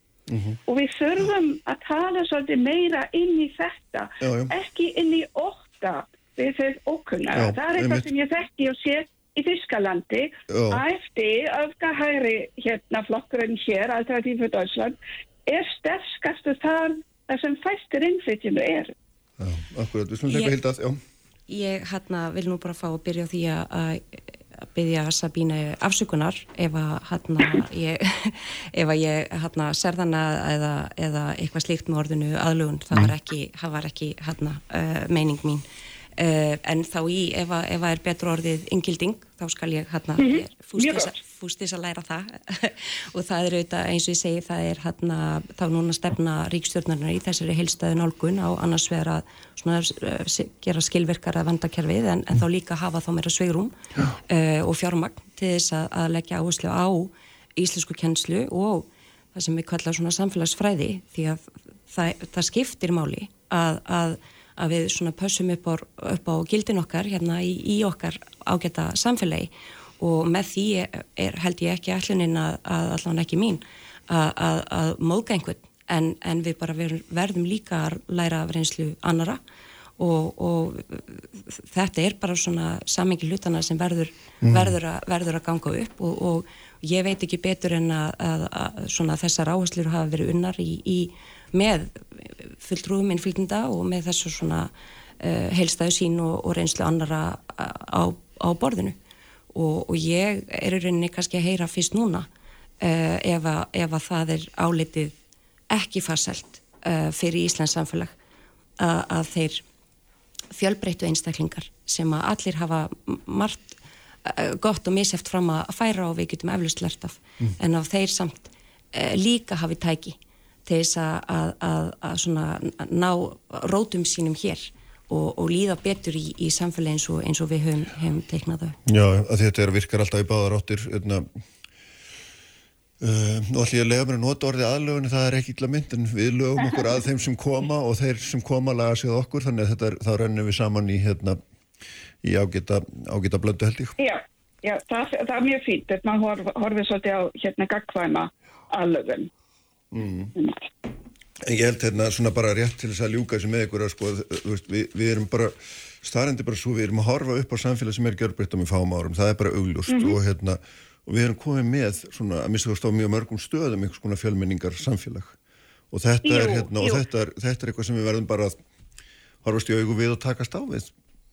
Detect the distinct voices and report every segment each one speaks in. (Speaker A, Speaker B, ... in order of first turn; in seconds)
Speaker A: 0.3-0.6, 4.2-4.5, 7.3-8.1, 10.5-10.8, 19.4-21.0, 84.4-84.7, 128.9-131.4, 133.0-141.4, 142.2-143.9, 149.9-150.3, 151.4-165.3, 165.9-168.6, 169.4-170.9
Speaker B: 0.7-18.9, 40.2-41.1, 144.0-149.3, 150.3-150.7, 159.9-160.2, 166.2-167.0
Speaker C: 20.3-20.6, 21.5-35.6, 36.2-53.7, 54.3-79.4, 80.0-99.0, 99.5-102.3, 102.8-105.1, 105.7-108.1, 108.8-109.6, 110.5-128.8